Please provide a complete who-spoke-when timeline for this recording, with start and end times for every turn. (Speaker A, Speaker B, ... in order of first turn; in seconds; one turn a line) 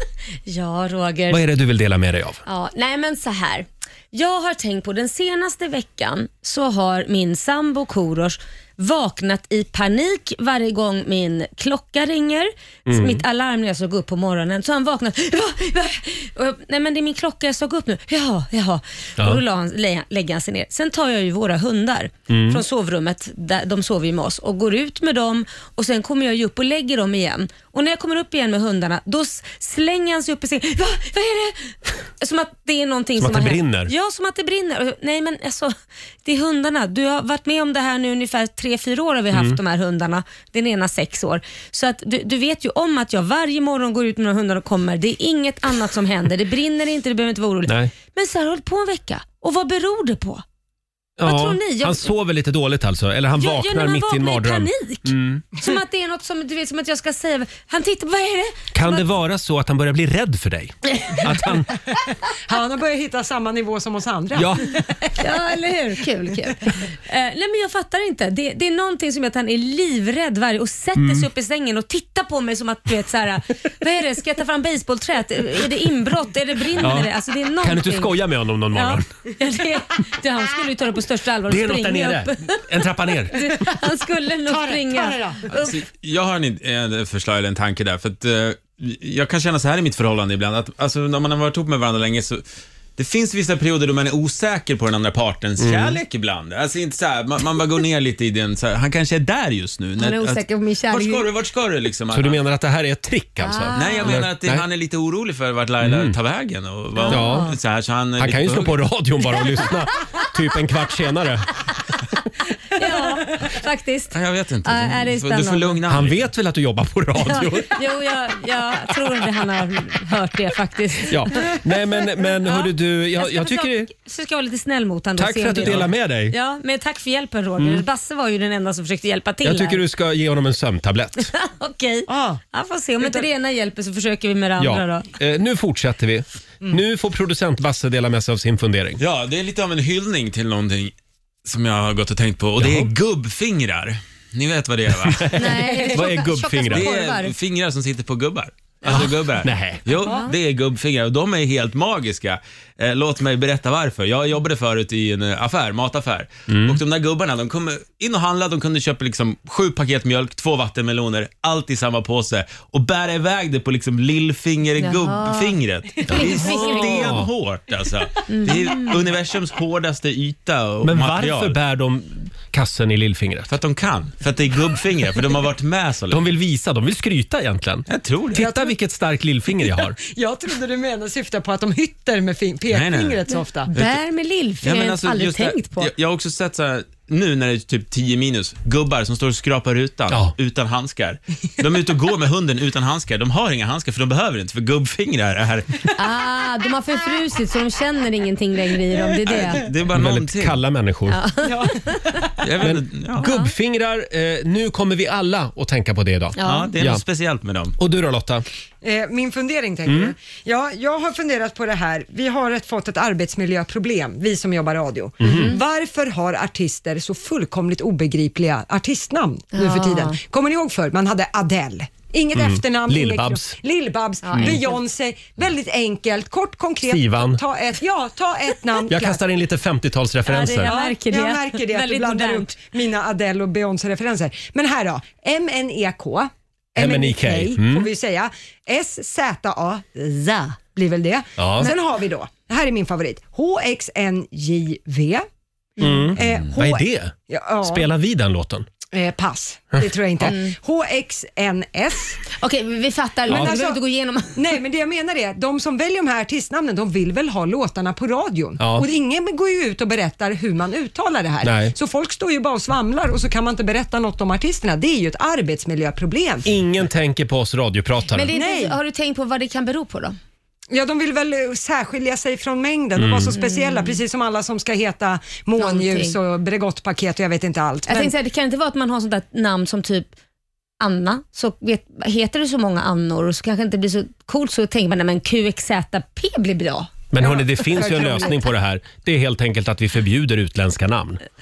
Speaker A: 0.5-1.4
Speaker B: 1.3-2.4
Speaker A: 2.5-35.7
Speaker B: 12.9-13.2
Speaker B: 22.3-22.6
Speaker B: 33.2-33.9
Speaker A: 36.2-50.4
Speaker B: 39.3-39.6
Speaker B: 47.7-47.9
Speaker B: 51.2-55.5
Speaker A: 51.2-52.0
Speaker A: 53.4-59.1
Speaker B: 58.7-61.8
Speaker C: 62.5-65.2
Speaker B: 64.3-64.8
Speaker A: 65.2-78.2
Speaker B: 71.0-71.3
Speaker B: 76.8-77.1
Speaker B: 77.6-79.1
Speaker A: 78.7-82.6
Speaker B: 81.5-83.3
Speaker A: 83.3-85.8
Speaker C: 84.5-85.5
Speaker D: 85.6-92.4
Speaker D: 93.0-102.4
Speaker B: 95.6-96.0
Speaker A: 100.0-101.3
Speaker B: 102.1-104.7
Speaker A: 103.4-104.2
Speaker D: 103.8-108.8
Speaker B: 105.8-106.2
Speaker A: 107.0-107.5
Speaker B: 107.1-107.5
Speaker B: 108.2-111.5
Speaker A: 112.8-114.1
Speaker D: 114.1-116.2
Speaker A: 114.7-115.8
Speaker B: 115.9-117.8
Speaker A: 117.2-121.6
Speaker B: 121.1-123.9
Speaker A: 122.2-129.8
Speaker B: 125.2-126.3
Speaker B: 127.6-127.8
Speaker B: 129.4-131.3
Speaker A: 131.3-135.1
Speaker C: 132.1-132.4
Speaker C: 133.0-133.3
Speaker B: 134.6-139.0
Speaker D: 139.0-140.9
Speaker D: 141.4-145.3
Speaker B: 142.6-142.9
Speaker B: 145.0-146.9
Speaker A: 145.4-147.3
Speaker D: 146.7-171.6
Speaker B: 148.8-149.9
Speaker A: 150.0-150.3
Speaker B: 156.5-156.8
Speaker A: 164.8-167.1
Speaker B: 166.1-167.3
Speaker A: 168.3-169.0
Speaker B: 170.8-173.5
Speaker D: 173.5-176.2
Speaker B: 176.1-180.0
Speaker D: 177.9-178.5
Speaker C: 178.4-178.7
Speaker C: 179.7-183.7
Speaker D: 182.7-183.2
Speaker A: 183.7-185.9
Speaker D: 183.7-184.0
Speaker D: 184.6-195.9
Speaker A: 196.0-199.6
Speaker D: 199.3-200.6
Speaker B: 199.9-201.2
Speaker A: 201.1-202.1
Speaker C: 201.4-202.3
Speaker D: 202.4-203.3
Speaker B: 202.6-207.0
Speaker A: 203.2-203.5
Speaker A: 206.4-206.7
Speaker D: 206.4-207.8
Speaker B: 207.8-208.4
Speaker C: 208.8-229.2
Speaker B: 209.9-210.1
Speaker B: 215.2-215.6
Speaker A: 215.2-215.6
Speaker A: 219.5-220.2
Speaker B: 222.3-223.6
Speaker A: 224.2-224.7
Speaker B: 224.3-224.6
Speaker B: 226.8-227.4
Speaker B: 228.9-230.7
Speaker A: 230.3-232.6
Speaker C: 230.7-245.2
Speaker B: 236.8-237.9
Speaker B: 241.4-241.7
Speaker A: 245.8-246.1
Speaker B: 245.8-248.7
Speaker C: 245.9-247.9
Speaker C: 248.9-252.2
Speaker A: 250.2-250.5
Speaker A: 252.3-254.4
Speaker C: 253.3-253.8
Speaker C: 254.3-266.5
Speaker B: 258.6-258.9
Speaker B: 261.4-261.8
Speaker B: 266.4-268.3
Speaker A: 268.1-270.2
Speaker C: 268.3-268.8
Speaker C: 270.7-278.1
Speaker B: 273.0-273.4
Speaker A: 273.3-274.0
Speaker A: 275.6-276.2
Speaker A: 277.9-280.1
Speaker A: 280.8-286.9
Speaker B: 287.1-291.2
Speaker C: 287.2-288.4